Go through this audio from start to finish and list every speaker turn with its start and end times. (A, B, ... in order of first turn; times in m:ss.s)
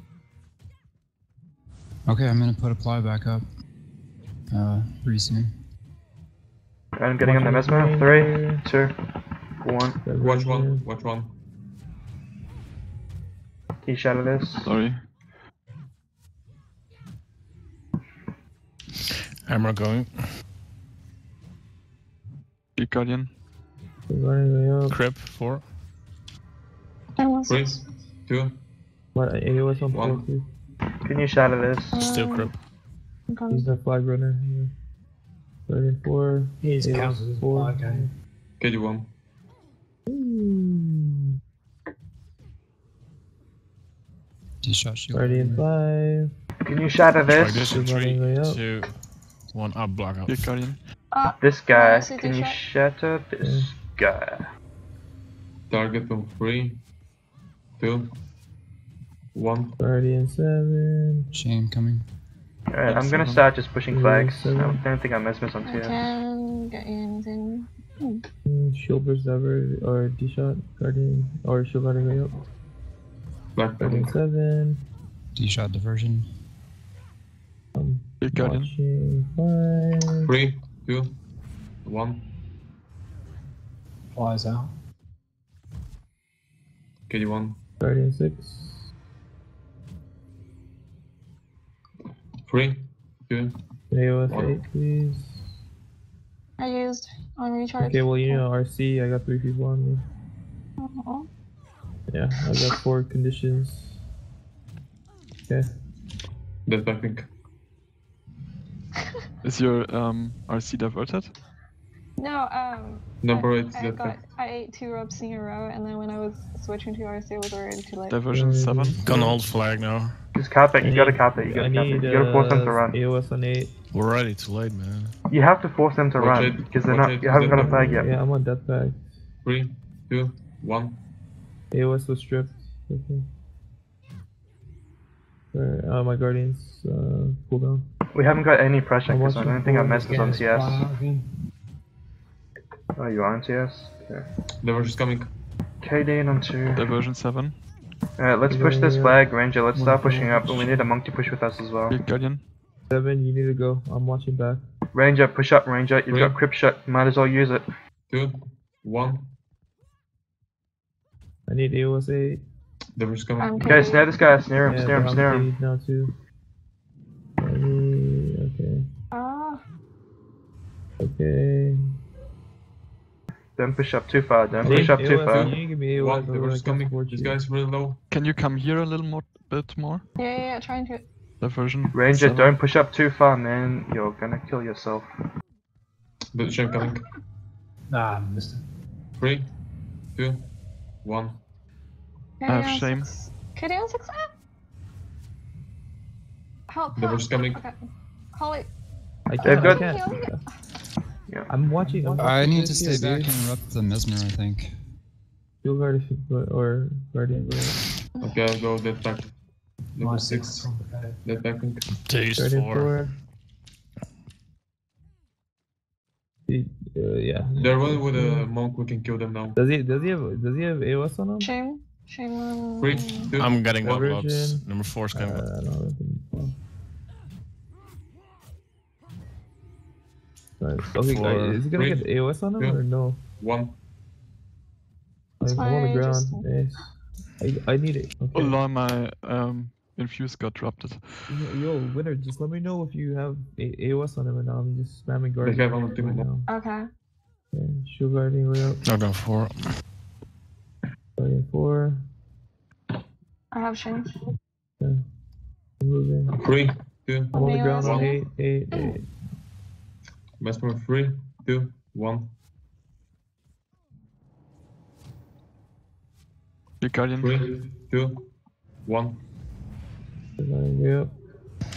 0:02.0-0:03.4 A
0:04.5-0:05.5 A
0:07.0-0:08.9 B
0:07.2-0:08.6 C
0:09.6-0:10.1 B
0:10.0-0:10.8 C
0:10.1-0:11.3 D
0:13.8-0:14.7 B
0:14.6-0:15.0 E
0:19.4-0:20.2 F
0:22.8-0:23.3 E
0:24.1-0:25.0 C
0:24.9-0:25.6 F
0:27.2-0:27.8 G
0:27.4-0:28.6 D
0:29.1-0:30.5 C
0:29.9-0:30.3 D
0:31.0-0:32.0 B
0:31.9-0:32.5 G
0:31.9-0:32.5 F
0:33.3-0:33.7 G
0:33.5-0:34.7 C
0:35.7-0:38.1 C
0:36.6-0:38.1 H
0:38.6-0:39.1 D
0:40.1-0:41.2 C
0:44.6-0:45.6 A
0:45.1-0:46.3 C
0:46.6-0:47.7 B
0:47.3-0:48.9 F
0:47.6-0:48.6 C
0:49.5-0:50.5 F
0:50.3-0:50.8 E
0:51.1-0:52.6 G
0:51.4-0:54.4 B
0:53.4-0:53.7 C
0:55.7-0:56.8 D
0:57.8-0:58.1 D
0:59.3-0:59.8 D
0:59.8-1:01.2 C
1:01.3-1:02.0 A
1:02.7-1:06.2 B
1:02.8-1:03.5 E
1:03.9-1:04.8 C
1:05.6-1:08.2 G
1:08.4-1:12.4 C
1:13.5-1:14.2 D
1:13.8-1:14.8 C
1:15.4-1:16.3 A
1:17.8-1:20.3 C
1:18.2-1:18.7 E
1:20.2-1:21.2 D
1:21.8-1:22.2 D
1:24.1-1:24.7 H
1:27.1-1:27.6 D
1:27.8-1:28.8 C
1:32.4-1:33.6 D
1:33.9-1:35.4 C
1:34.3-1:34.6 D
1:36.6-1:38.4 G
1:37.8-1:40.0 C
1:40.8-1:41.3 G
1:42.1-1:44.0 C
1:46.6-1:47.3 D
1:49.4-1:51.3 E
1:52.2-1:58.2 G
1:53.2-1:54.2 D
1:58.1-1:59.0 E
1:58.3-1:59.4 C
1:59.0-2:00.2 F
2:00.3-2:03.0 B
2:00.8-2:03.7 C
2:03.9-2:05.1 F
2:05.3-2:08.1 B
2:06.1-2:07.8 D
2:07.5-2:09.1 C
2:09.4-2:11.0 D
2:11.7-2:13.2 C
2:15.5-2:17.8 C
2:18.1-2:20.9 B
2:19.0-2:20.5 C
2:19.8-2:21.3 H
2:23.0-2:24.2 B
2:24.6-2:25.3 D
2:25.8-2:26.9 B
2:26.7-2:27.6 E
2:28.2-2:32.0 B
2:28.5-2:29.2 C
2:29.7-2:30.9 H
2:31.9-2:32.4 E
2:32.9-2:34.6 C
2:34.9-2:37.6 B
2:36.1-2:36.4 D
2:38.1-2:39.3 D
2:41.5-2:42.4 C
2:42.9-2:44.0 D
2:43.4-2:44.1 G
2:43.6-2:45.5 B
2:44.6-2:46.1 C
2:47.4-2:48.8 C
2:49.1-2:49.6 G
2:51.0-2:51.8 C
2:53.6-2:55.5 B
2:54.6-2:57.4 C
2:54.7-2:58.0 D
2:58.1-3:00.0 E
3:00.2-3:01.0 G
3:01.4-3:02.6 E
3:01.9-3:05.1 B
3:06.3-3:07.0 D
3:07.9-3:08.6 H
3:09.2-3:09.5 D
3:10.2-3:10.5 D
3:11.0-3:11.4 D
3:12.4-3:14.3 G
3:12.5-3:13.1 E
3:16.7-3:17.8 G
3:16.9-3:17.6 D
3:18.3-3:18.7 G
3:19.3-3:20.4 C
3:19.4-3:19.9 B
3:19.4-3:20.3 G
3:21.5-3:23.4 C
3:21.8-3:22.5 H
3:22.2-3:24.7 A
3:25.6-3:27.8 C
3:28.2-3:28.4 G
3:28.2-3:29.3 D
3:29.9-3:30.7 D
3:30.0-3:31.2 H
3:31.2-3:31.9 D
3:32.0-3:32.9 F
3:32.4-3:33.1 C
3:36.5-3:38.5 C
3:37.6-3:39.6 D
3:39.5-3:41.5 C
3:41.4-3:43.4 G
3:42.8-3:44.1 D
3:43.4-3:45.4 F
3:43.8-3:46.6 C
3:50.6-3:53.2 C
3:50.9-3:51.6 F
3:51.7-3:52.8 D
3:53.4-3:53.8 D
3:55.4-3:58.6 C
3:55.4-3:56.4 G
3:58.3-4:01.0 E
4:01.3-4:06.5 C
4:05.4-4:06.3 D
4:06.5-4:06.8 G
4:07.5-4:08.8 C
4:08.8-4:09.6 F
4:11.2-4:12.0 C
4:13.5-4:14.2 G
4:15.8-4:16.4 C
4:16.3-4:18.1 D
4:17.3-4:19.0 G
4:17.3-4:19.1 C
4:20.4-4:22.3 D
4:26.8-4:27.4 E
4:27.2-4:28.3 D
4:28.8-4:29.2 D
4:30.4-4:31.1 C